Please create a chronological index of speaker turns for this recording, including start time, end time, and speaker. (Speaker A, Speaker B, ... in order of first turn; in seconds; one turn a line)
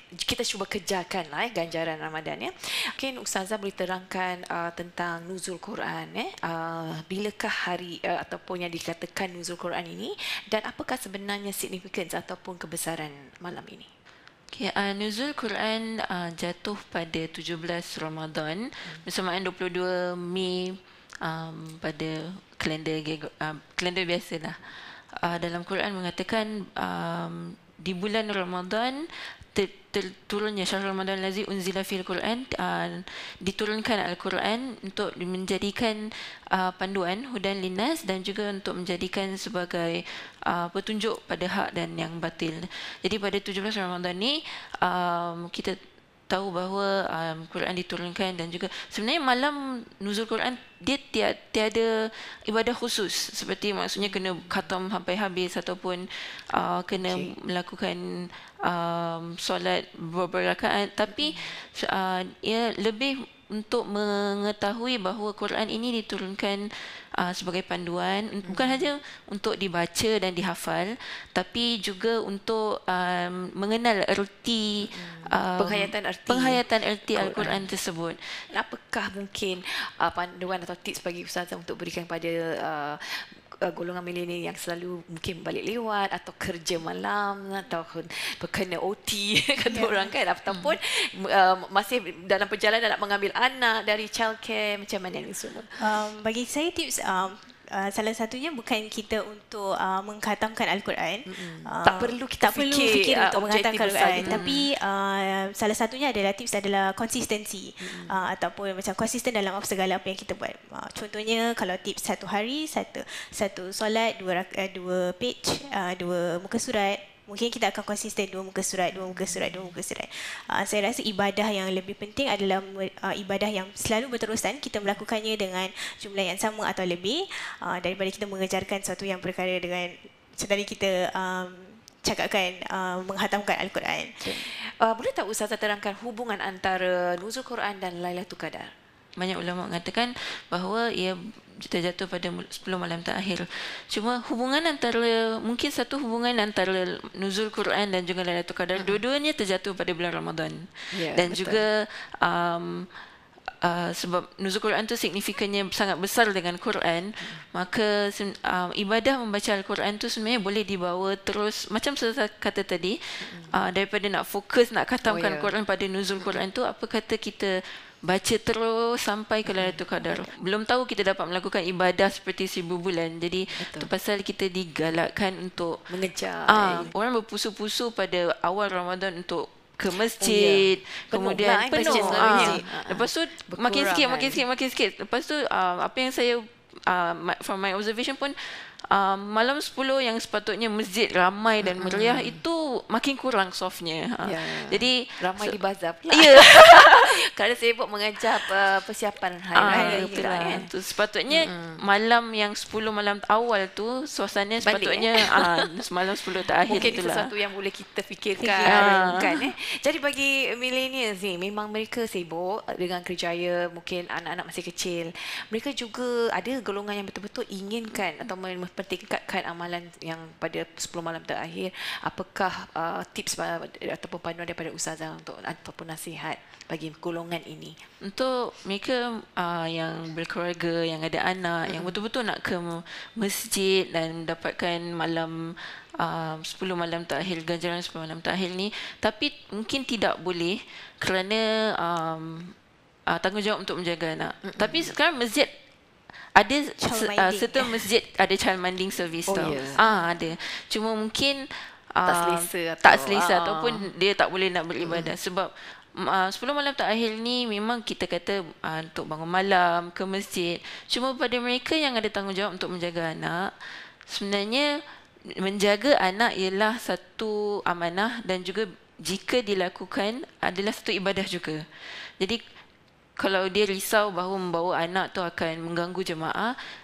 Speaker A: 0.2-13.9
Speaker B: 14.5-45.8
Speaker B: 46.3-78.4
Speaker A: 54.0-54.7
Speaker A: 56.9-57.3
Speaker A: 61.1-61.5
Speaker A: 68.5-68.9
Speaker A: 74.9-77.7
Speaker A: 78.5-95.8
Speaker C: 89.7-90.1
Speaker B: 90.5-90.8
Speaker C: 95.8-134.4
Speaker A: 101.3-104.5
Speaker B: 104.2-104.7
Speaker A: 107.8-108.3
Speaker A: 119.1-119.7
Speaker A: 134.2-138.7
Speaker B: 139.2-152.9
Speaker A: 148.8-149.0
Speaker A: 150.9-151.6
Speaker B: 153.6-167.5
Speaker A: 163.2-163.7
Speaker A: 165.1-165.5
Speaker B: 168.0-175.9
Speaker A: 169.5-170.3
Speaker A: 173.6-173.9
Speaker A: 175.9-176.9
Speaker B: 176.5-195.6
Speaker A: 179.9-184.4
Speaker C: 181.8-182.6
Speaker A: 191.6-192.4
Speaker A: 194.2-200.7
Speaker B: 196.1-197.1
Speaker B: 199.5-207.3
Speaker C: 199.7-200.2
Speaker A: 201.3-201.8
Speaker A: 204.6-205.7
Speaker A: 206.6-227.8
Speaker C: 208.4-209.0
Speaker B: 208.6-209.4
Speaker B: 228.0-242.5
Speaker A: 231.7-232.0
Speaker B: 243.1-245.5
Speaker A: 244.5-244.9
Speaker B: 246.3-264.7
Speaker C: 246.8-247.9
Speaker A: 249.3-249.9
Speaker A: 252.0-253.9
Speaker A: 254.8-255.2
Speaker B: 265.4-272.4
Speaker B: 273.2-276.6